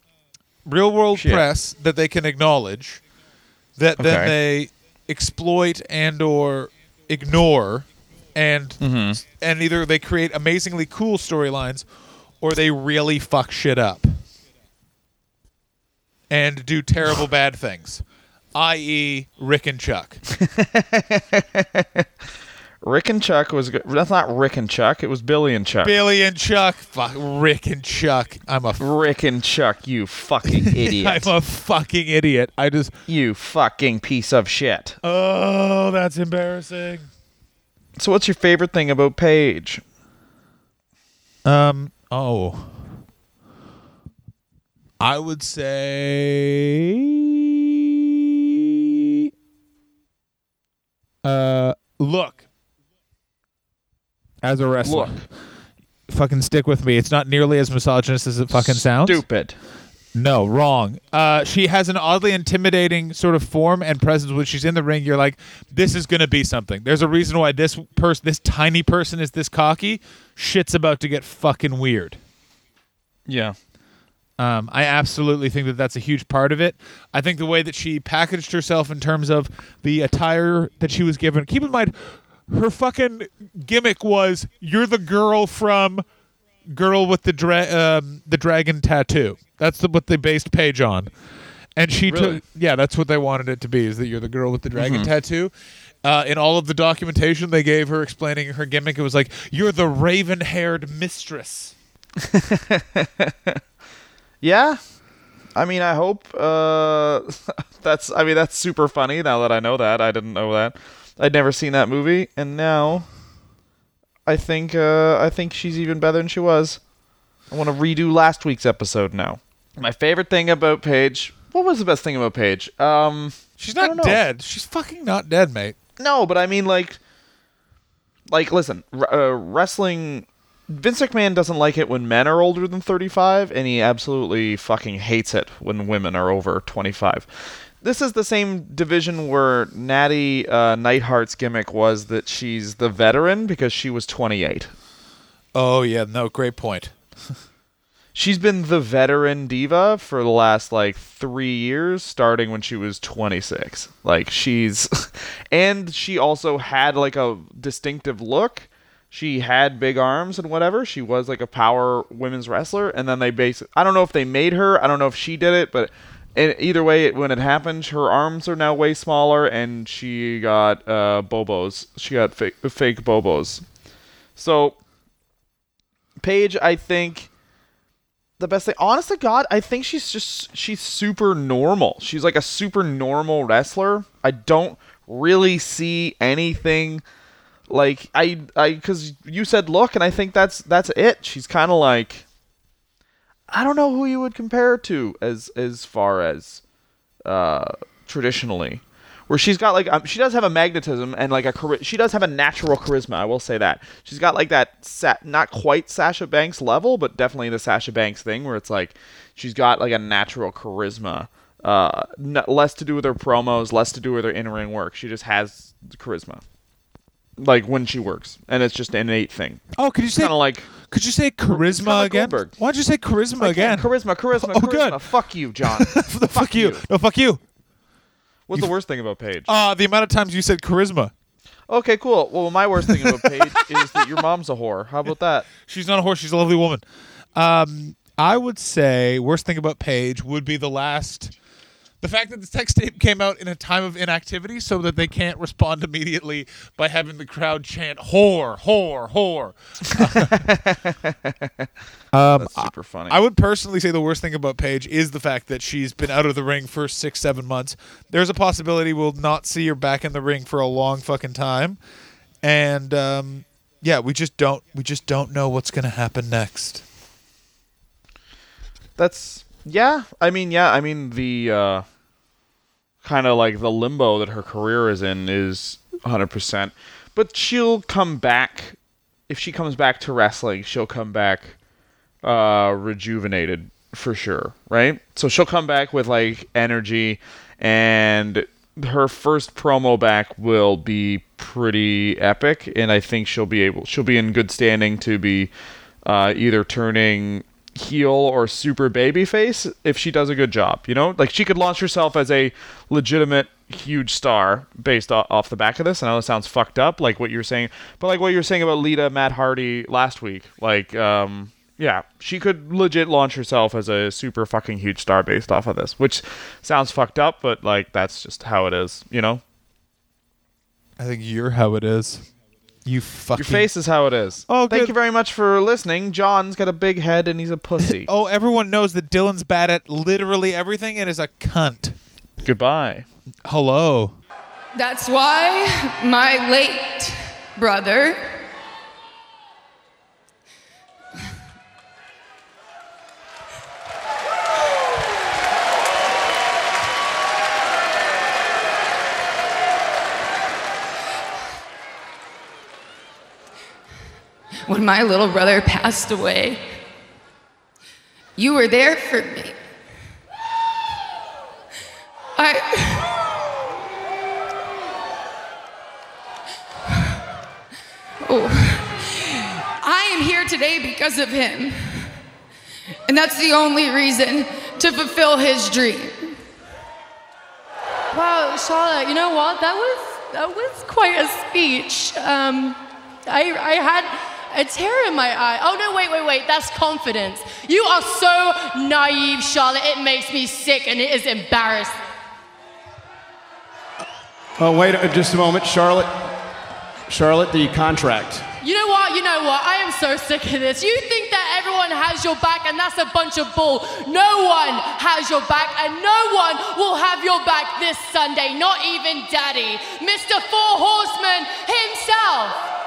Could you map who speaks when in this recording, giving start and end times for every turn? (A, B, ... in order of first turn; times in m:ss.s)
0:00.6-0:03.0 A
0:01.2-0:01.5 B
0:03.8-0:11.9 A
0:04.0-0:04.4 B
0:08.8-0:09.2 B
0:12.4-0:14.2 A
0:16.3-0:18.0 A
0:18.6-0:20.2 A
0:20.3-0:22.1 B
0:22.8-0:26.0 B
0:25.8-0:28.8 A
0:28.8-0:31.3 B
0:30.6-0:32.9 A
0:33.1-0:35.0 B
0:35.0-0:37.1 A
0:38.0-0:39.8 B
0:41.4-0:42.9 A
0:45.0-0:49.3 A
0:51.2-0:52.4 A
0:54.4-0:55.2 A
0:54.8-0:55.3 B
0:56.1-0:59.2 A
0:58.5-0:59.6 B
1:00.1-1:12.2 A
1:13.3-1:13.6 B
1:14.4-1:26.0 A
1:26.7-1:31.1 A
1:31.8-1:35.5 A
1:32.1-1:32.4 B
1:34.8-1:35.1 B
1:36.0-1:41.8 A
1:42.2-1:43.6 B
1:44.4-1:44.8 B
1:45.6-1:53.1 B
1:54.3-1:56.8 B
1:57.5-2:04.2 B
2:03.6-2:05.8 A
2:06.0-2:07.0 B
2:08.3-2:24.7 B
2:25.5-2:26.9 A
2:28.2-2:53.6 B
2:54.4-2:54.8 B
2:56.2-2:57.3 B
2:58.4-3:07.0 B
3:07.7-3:12.3 B
3:13.5-3:16.6 B
3:17.2-3:36.4 B
3:37.4-3:40.7 B
3:39.8-3:45.1 A
3:41.5-3:42.5 B
3:43.4-3:46.8 B
3:45.6-3:47.4 A
3:48.5-3:49.5 B
3:49.5-3:51.1 A
3:51.7-3:55.5 B
3:52.8-3:54.2 A
3:55.6-3:56.8 A
3:57.4-4:01.3 A
4:02.0-4:10.5 A
4:10.0-4:11.7 B
4:12.1-4:21.8 A
4:12.4-4:13.2 B
4:22.4-4:26.8 A
4:29.0-4:31.9 B
4:33.0-4:38.8 B
4:39.3-4:41.6 B
4:42.2-4:55.5 B
4:56.0-5:19.4 B
5:21.0-5:22.3 A
5:22.8-5:23.7 A
5:23.4-5:28.1 B
5:24.5-5:24.9 A
5:27.8-5:32.0 A
5:32.4-5:33.1 B
5:33.4-5:34.1 A
5:34.8-5:38.2 C
5:54.7-5:56.6 C
5:58.4-5:59.5 C
6:02.4-6:03.1 C
6:08.2-6:12.0 C
6:13.1-6:16.4 C
6:18.1-6:32.0 D
6:34.6-6:36.1 E
6:37.1-6:38.5 E
6:38.6-6:52.6 D